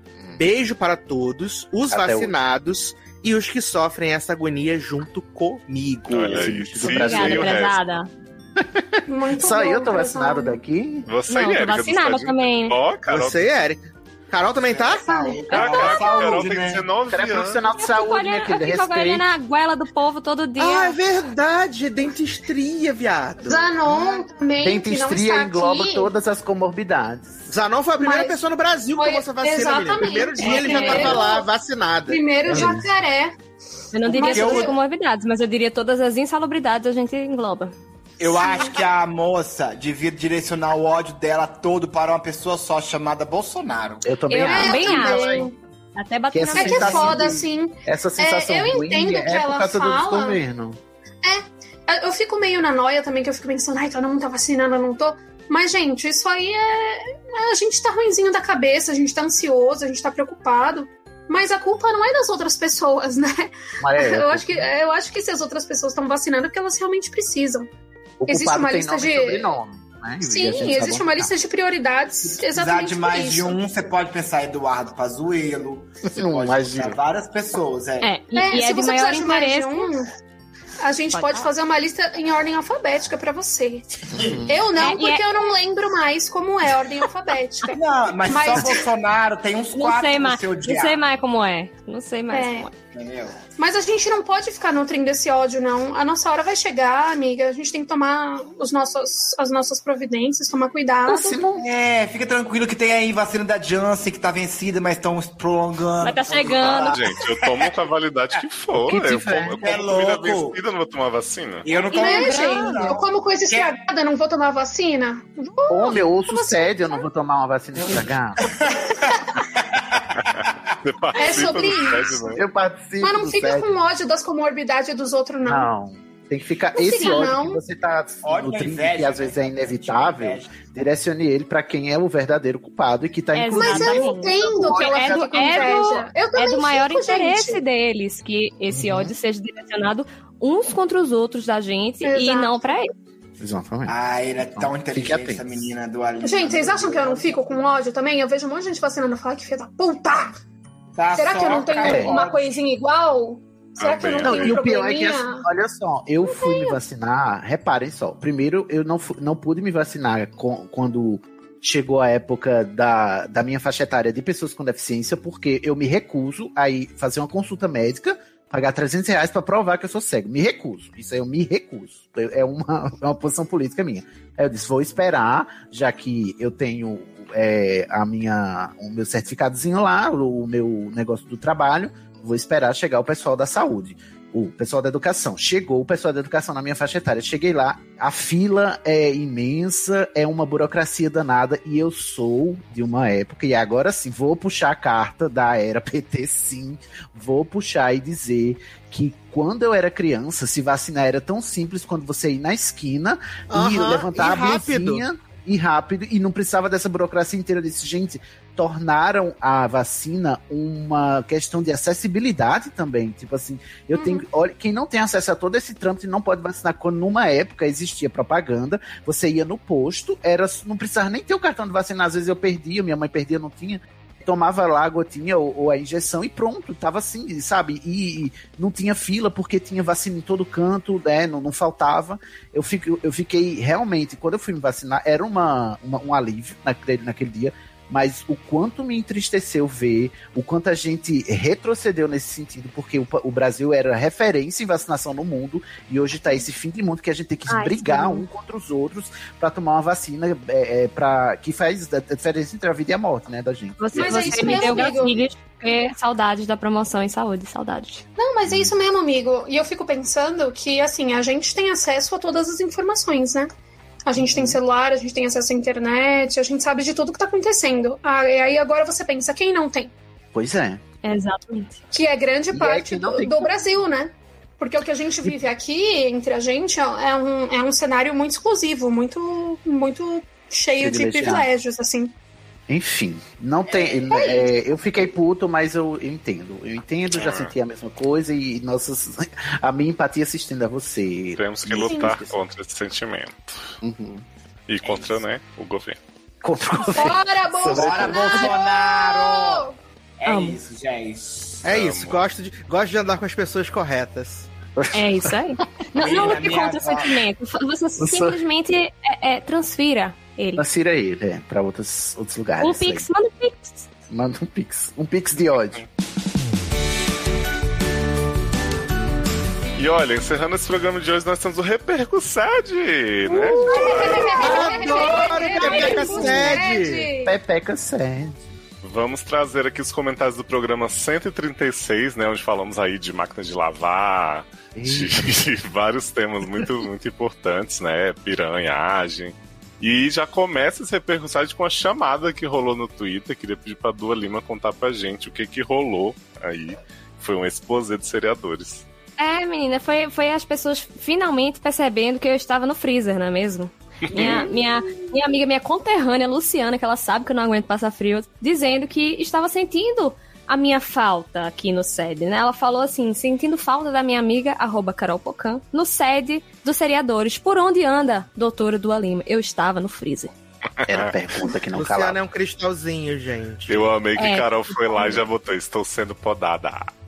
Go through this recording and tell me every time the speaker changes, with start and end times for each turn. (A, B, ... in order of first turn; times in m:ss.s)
0:00.4-0:06.6 A
0:01.9-0:02.3 B
0:06.1-0:07.8 C
0:06.3-0:07.7 B
0:06.9-0:08.1 D
0:08.6-0:11.1 B
0:09.1-0:10.6 E
0:11.0-0:13.4 C
0:11.3-0:12.7 D
0:13.1-0:15.2 A
0:14.6-0:16.9 F
0:15.1-0:15.4 E
0:15.5-0:16.2 D
0:15.5-0:17.6 C
0:17.1-0:19.2 B
0:17.8-0:21.0 D
0:20.6-0:23.8 A
0:23.4-0:26.1 E
0:24.6-0:27.4 B
0:27.5-0:32.2 A
0:28.0-0:28.4 E
0:29.0-0:31.5 E
0:30.4-0:31.1 D
0:32.1-0:33.3 E
0:32.4-0:32.9 B
0:33.9-0:37.7 D
0:34.0-0:34.7 E
0:34.2-0:34.7 F
0:38.2-0:44.1 F
0:38.2-0:38.9 E
0:44.0-0:45.5 B
0:44.3-0:47.3 D
0:44.4-0:45.5 E
0:46.3-0:50.8 B
0:46.5-0:50.4 E
0:51.2-1:07.7 E
1:03.8-1:04.7 B
1:08.2-1:11.3 B
1:08.3-1:09.5 E
1:10.2-1:13.6 E
1:12.3-1:18.1 F
1:16.0-1:17.0 B
1:18.0-1:19.9 D
1:18.3-1:20.1 E
1:20.8-1:23.9 E
1:21.1-1:21.5 D
1:24.1-1:24.6 B
1:24.1-1:24.4 F
1:24.4-1:28.8 E
1:24.8-1:25.2 D
1:27.7-1:31.0 F
1:29.7-1:32.7 D
1:32.3-1:32.7 E
1:32.9-1:33.4 F
1:33.6-1:41.4 E
1:41.1-1:41.6 B
1:41.6-1:47.7 F
1:46.0-1:47.0 D
1:46.9-1:51.7 C
1:48.8-1:49.8 B
1:49.6-1:50.6 F
1:51.6-1:53.7 F
1:51.9-1:53.0 D
1:51.9-1:57.0 E
1:55.7-1:58.5 B
1:58.5-2:00.0 F
2:00.3-2:02.4 C
2:01.1-2:02.4 E
2:02.3-2:03.7 B
2:03.0-2:05.7 E
2:05.4-2:14.2 B
2:06.7-2:07.6 E
2:08.2-2:10.7 F
2:13.3-2:22.9 D
2:13.5-2:17.6 E
2:14.4-2:15.0 F
2:15.1-2:15.6 B
2:18.7-2:19.1 B
2:22.0-2:22.5 E
2:23.4-2:23.9 B
2:23.9-2:27.6 F
2:24.6-2:25.4 B
2:26.2-2:30.4 E
2:31.0-2:32.5 F
2:31.1-2:35.4 E
2:31.8-2:32.2 B
2:33.8-2:34.6 C
2:34.2-4:15.0 B
2:36.2-2:36.8 E
3:23.5-3:25.0 A
3:33.9-3:34.2 E
4:07.5-4:08.2 D
4:13.8-4:18.0 D
4:13.9-4:15.2 E
4:18.2-4:23.5 E
4:18.5-4:18.7 B
4:24.0-4:29.9 E
4:24.2-4:24.6 B
4:30.3-4:30.8 B
4:31.0-4:31.8 D
4:31.9-4:42.1 E
4:32.5-4:33.5 B
4:40.8-4:41.5 B
4:42.7-4:52.3 B
4:44.1-4:44.5 E
4:47.2-4:47.5 C
4:51.4-4:53.8 C
4:51.9-4:52.2 E
4:53.8-4:54.2 B
4:54.7-4:56.0 C
4:54.8-4:55.2 F
4:56.4-4:58.4 B
4:56.9-4:59.8 E
4:57.6-4:59.7 F
5:00.2-5:01.6 F
5:00.2-5:00.6 D
5:01.6-5:04.5 A
5:01.6-5:02.2 C
5:04.8-5:05.6 B
5:04.9-5:10.7 D
5:05.9-5:07.2 F
5:08.0-5:08.4 B
5:10.6-5:13.0 B
5:12.6-5:13.8 D
5:14.1-5:15.8 B
5:19.8-5:24.4 C
5:23.2-5:27.4 E
5:24.2-5:27.1 A
5:25.6-5:26.6 B
5:27.2-5:28.4 B
5:28.8-5:48.8 C
5:34.8-5:35.2 B
5:49.2-6:10.3 D
5:54.1-5:54.4 C
5:54.2-5:54.6 E
6:10.8-6:11.1 C
6:10.8-6:12.2 B
6:11.7-6:13.9 A
6:13.7-6:16.9 C
6:14.2-6:15.1 D